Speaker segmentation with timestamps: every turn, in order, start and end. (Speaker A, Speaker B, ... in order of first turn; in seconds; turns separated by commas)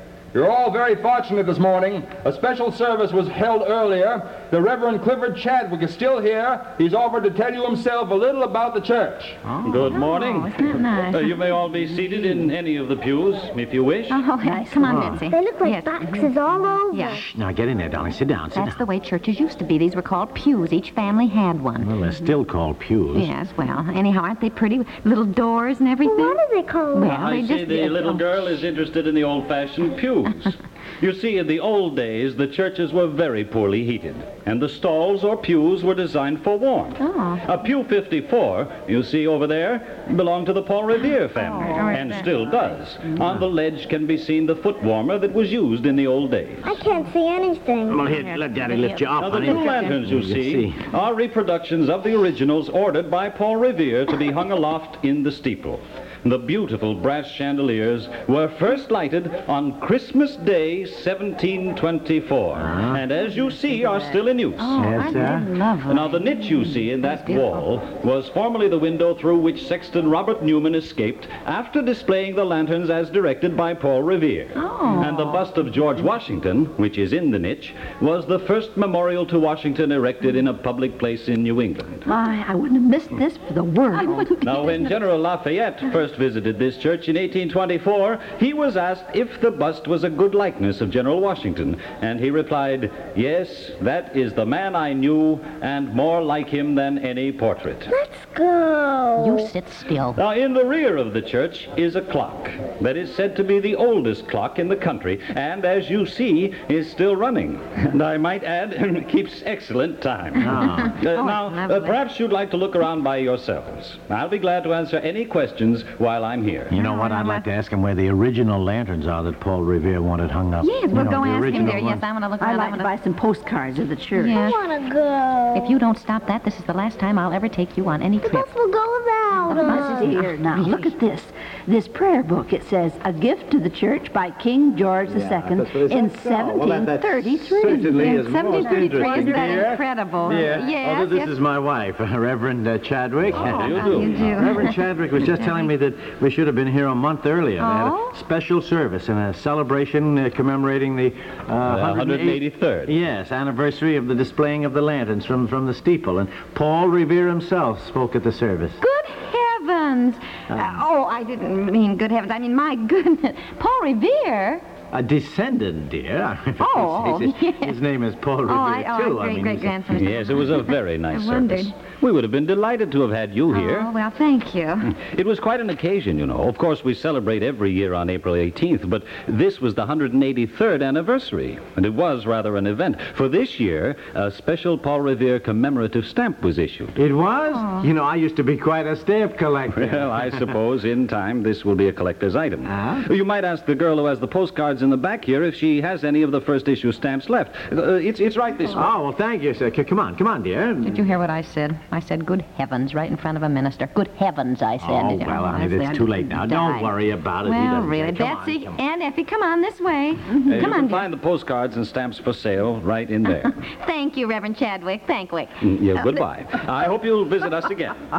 Speaker A: 0.3-9.4, Speaker B: 9.6-14.2, Speaker C: 9.6-10.0, Speaker D: 9.8-11.4, Speaker D: 14.1-16.3, Speaker E: 14.4-15.2, Speaker C: 14.8-15.2, Speaker F: 15.3-17.3, Speaker D: 16.9-17.2, Speaker C: 17.1-18.8, Speaker D: 18.5-22.0, Speaker C: 21.8-23.3, Speaker D: 23.1-26.4, Speaker F: 26.0-27.2, Speaker D: 26.9-28.6, Speaker B: 27.1-46.9, Speaker D: 37.0-37.4, Speaker D: 41.6-42.5, Speaker F: 46.6-48.1, Speaker C: 47.9-50.8, Speaker B: 49.2-64.9, Speaker C: 62.6-63.0, Speaker D: 64.6-67.6, Speaker C: 64.8-65.5, Speaker B: 65.9-82.0, Speaker D: 74.6-75.4, Speaker E: 82.1-84.9, Speaker B: 84.4-97.9, Speaker F: 97.9-99.5, Speaker D: 99.2-100.2, Speaker B: 100.1-116.8, Speaker C: 110.4-110.9, Speaker D: 110.6-112.0, Speaker C: 116.7-122.0, Speaker D: 116.7-117.5, Speaker D: 120.6-122.9, Speaker E: 122.4-124.4, Speaker D: 124.2-124.6, Speaker F: 124.3-125.8, Speaker D: 125.5-128.5, Speaker F: 128.2-130.3, Speaker D: 129.4-130.9, Speaker E: 129.5-138.1, Speaker C: 135.1-158.8, Speaker D: 138.0-141.3, Speaker B: 143.3-144.5, Speaker D: 143.4-145.7, Speaker D: 147.6-148.2, Speaker B: 151.7-152.9, Speaker D: 158.8-164.6, Speaker C: 160.5-160.8, Speaker C: 164.9-169.8, Speaker D: 166.6-167.8, Speaker D: 168.5-171.7, Speaker B: 169.9-173.9, Speaker D: 173.5-174.9, Speaker B: 174.9-186.9, Speaker C: 187.0-190.5, Speaker D: 187.5-187.9, Speaker B: 189.7-198.9, Speaker C: 192.7-193.1, Speaker C: 198.7-201.0, Speaker D: 200.8-211.1, Speaker C: 204.8-208.8, Speaker B: 210.4-213.5, Speaker D: 213.4-216.2, Speaker B: 215.6-218.0